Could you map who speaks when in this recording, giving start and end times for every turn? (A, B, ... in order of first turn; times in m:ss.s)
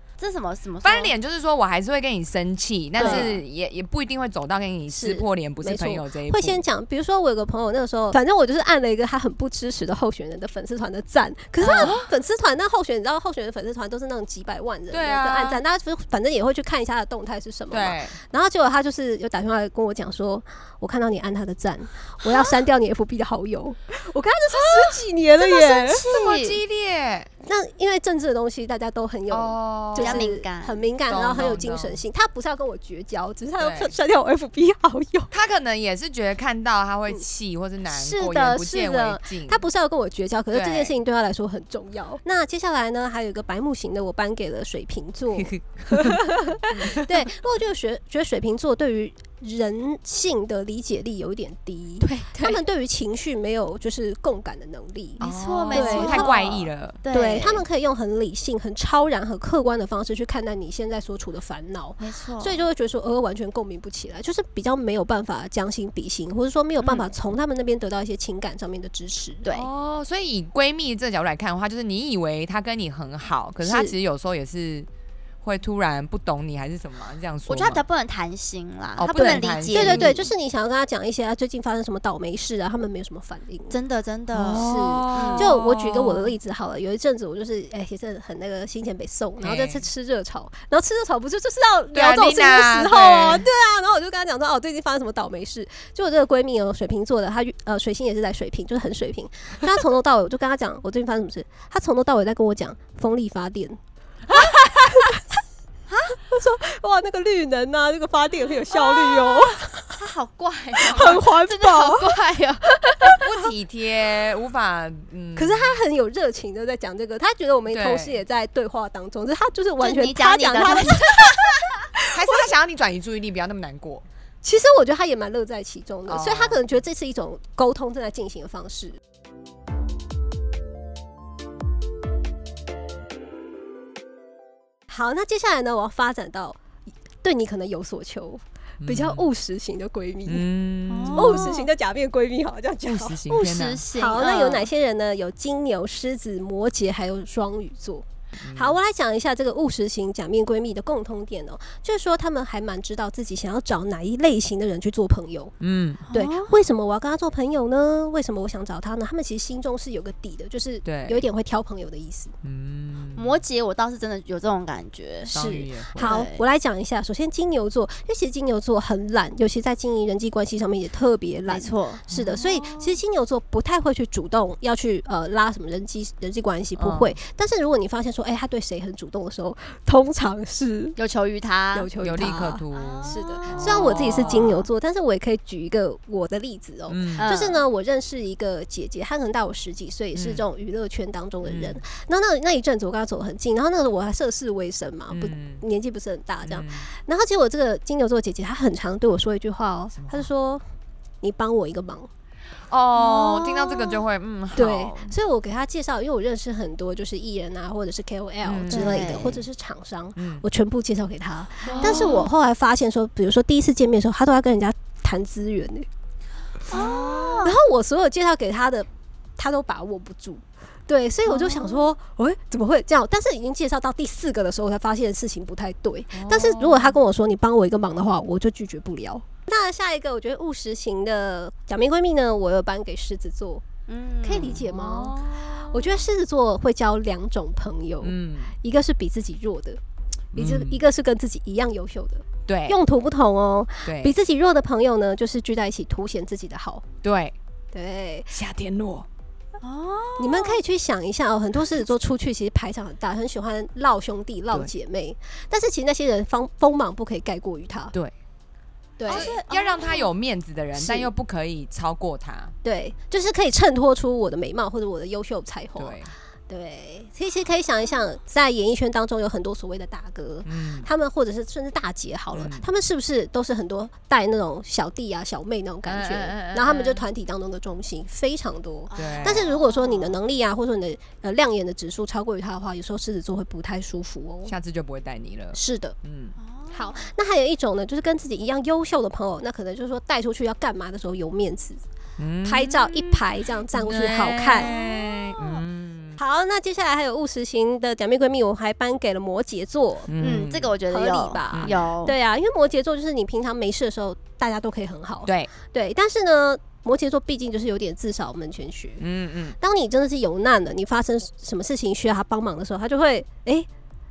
0:00.2-0:01.1 A
0:00.8-0:06.6 B
0:03.0-0:03.4 C
0:03.0-0:03.3 A
0:04.9-0:26.1 C
0:11.6-0:12.0 A
0:11.7-0:12.1 B
0:14.9-0:15.6 B
0:17.7-0:18.2 B
0:24.5-0:25.0 B
0:25.4-0:26.6 A
0:26.1-0:27.3 B
0:27.4-0:35.3 C
0:29.3-0:30.3 B
0:30.0-0:30.8 A
0:31.1-0:32.0 B
0:33.6-0:33.9 B
0:35.3-0:39.6 B
0:37.8-0:55.2 C
0:40.5-0:40.9 B
0:45.4-0:47.3 B
0:52.0-0:52.6 A
0:55.2-0:57.6 A
0:55.2-0:57.0 B
0:55.7-0:56.4 C
0:57.1-1:09.4 C
1:02.0-1:02.6 A
1:06.8-1:07.1 A
1:09.4-1:09.7 A
1:09.5-1:14.9 B
1:13.6-1:13.9 C
1:15.4-1:17.8 B
1:17.5-1:20.2 A
1:19.0-1:20.2 B
1:19.2-1:23.8 C
1:23.7-1:25.5 A
1:24.3-1:26.3 B
1:24.5-1:45.2 C
1:29.4-1:29.8 B
1:31.9-1:33.5 B
1:45.9-1:46.2 A
1:46.2-1:50.0 C
1:48.7-1:53.2 A
1:50.8-1:52.2 C
1:52.8-1:53.4 C
1:53.0-1:55.8 B
1:55.4-2:02.4 C
1:57.7-1:58.2 B
1:59.8-2:01.7 A
2:02.1-2:04.0 B
2:04.4-2:09.0 C
2:06.1-2:06.6 B
2:14.9-2:16.6 C
2:17.2-2:20.5 C
2:18.8-2:19.3 B
2:20.2-2:21.4 B
2:20.9-2:21.7 A
2:21.1-2:23.4 C
2:22.8-2:23.8 B
2:23.3-2:24.7 A
2:23.9-2:35.5 C
2:28.4-2:28.8 B
2:35.6-2:36.0 B
2:36.1-2:36.6 A
2:36.1-2:42.3 C
2:40.8-2:41.2 B
2:42.4-2:43.4 B
2:43.2-2:45.3 A
2:45.3-3:01.0 C
2:45.3-2:46.2 B
2:46.0-2:46.4 A
2:51.5-2:52.0 A
2:52.1-2:52.8 B
2:56.8-2:57.2 B
3:01.0-3:01.9 A
3:01.7-3:20.6 C
3:02.0-3:04.6 B
3:02.7-3:04.4 A
3:06.9-3:07.3 B
3:07.2-3:07.6 A
3:10.1-3:10.4 B
3:11.4-3:11.8 B
3:15.1-3:15.6 B
3:16.4-3:16.9 B
3:20.0-3:20.3 B
3:21.2-3:22.1 C
3:22.7-3:25.1 B
3:22.9-3:24.0 A
3:24.5-3:35.9 C
3:28.4-3:29.4 B
3:28.7-3:29.4 A
3:30.2-3:30.4 B
3:31.6-3:32.3 A
3:31.7-3:32.3 B
3:36.7-3:37.5 A
3:36.7-3:37.4 B
3:37.4-3:53.6 C
3:46.1-3:47.0 B
3:53.9-3:54.6 A
3:54.2-3:59.8 C
3:54.3-3:56.0 B
3:58.0-3:58.5 B
4:00.3-4:00.8 B
4:00.3-4:06.8 C
4:02.5-4:02.8 B
4:03.8-4:04.2 B
4:07.0-4:07.3 B
4:07.7-4:08.3 C
4:08.3-4:09.1 B
4:09.6-4:10.6 A
4:10.2-4:17.9 C
4:19.0-4:19.3 C
4:19.1-4:20.1 A
4:19.1-4:22.5 B
4:20.7-4:21.1 C
4:22.6-4:44.5 C
4:25.8-4:26.1 B
4:30.4-4:30.9 B
4:32.3-4:32.7 B
4:35.8-4:37.0 B
4:38.9-4:40.1 A
4:38.9-4:39.5 B
4:44.4-4:46.4 B
4:45.5-4:46.0 C
4:46.4-4:47.1 A
4:46.7-4:51.8 C
4:52.2-4:56.2 B
4:52.4-4:54.7 C
4:54.6-4:55.6 A
4:56.2-5:00.1 C
5:00.1-5:00.7 B
5:00.2-5:02.1 A
5:00.9-5:09.0 C
5:01.5-5:01.8 B
5:05.2-5:05.5 B
5:09.0-5:09.6 B
5:09.6-5:13.7 C